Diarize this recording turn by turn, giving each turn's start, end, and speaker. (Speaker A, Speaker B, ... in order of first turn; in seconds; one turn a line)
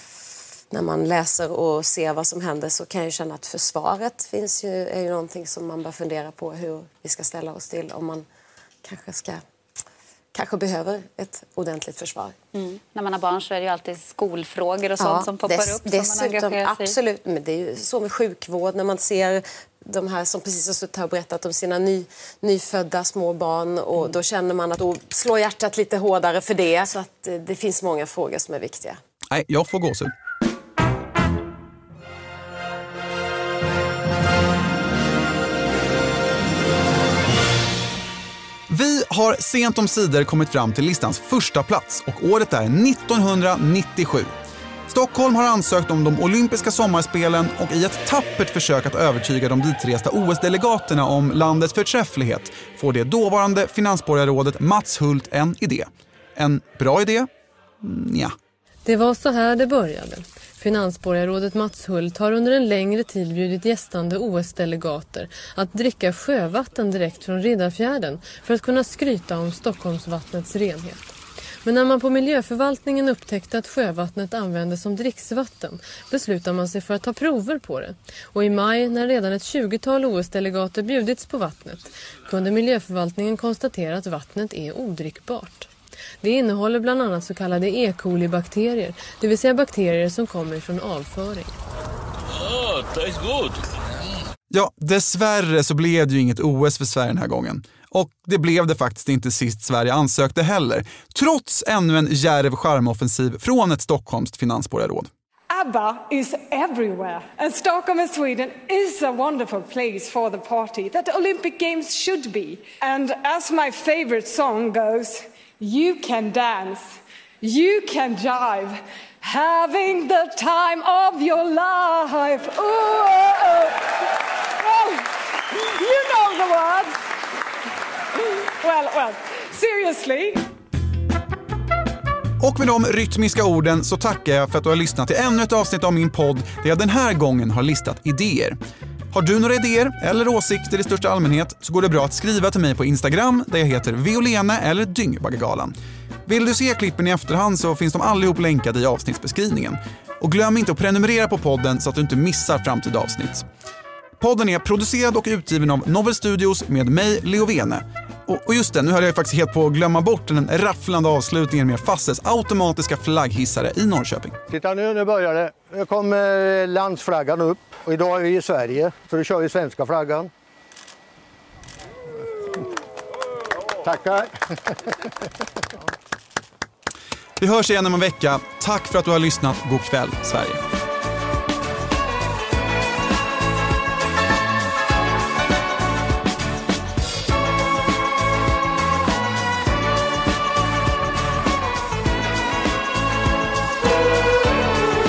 Speaker A: 0.7-8.2
Speaker A: 8.8-9.4
Speaker A: 10.3-12.3
Speaker B: 12.5-16.9
Speaker A: 14.9-29.0
Speaker C: 29.3-30.1
Speaker C: 38.7-44.3
Speaker C: 44.9-57.3
Speaker C: 57.8-58.3
Speaker D: 58.8-71.1
Speaker D: 71.6-85.7
Speaker D: 86.2-91.5
Speaker C: 94.5-105.1
Speaker E: 105.5-123.8
Speaker E: 124.6-125.0
Speaker E: 125.7-126.9
Speaker E: 128.6-130.4
Speaker C: 132.4-138.6
Speaker C: 139.1-145.7
Speaker C: 146.2-153.4
Speaker C: 154.2-164.4
Speaker F: 164.5-170.3
Speaker F: 173.8-174.8
Speaker C: 177.4-180.6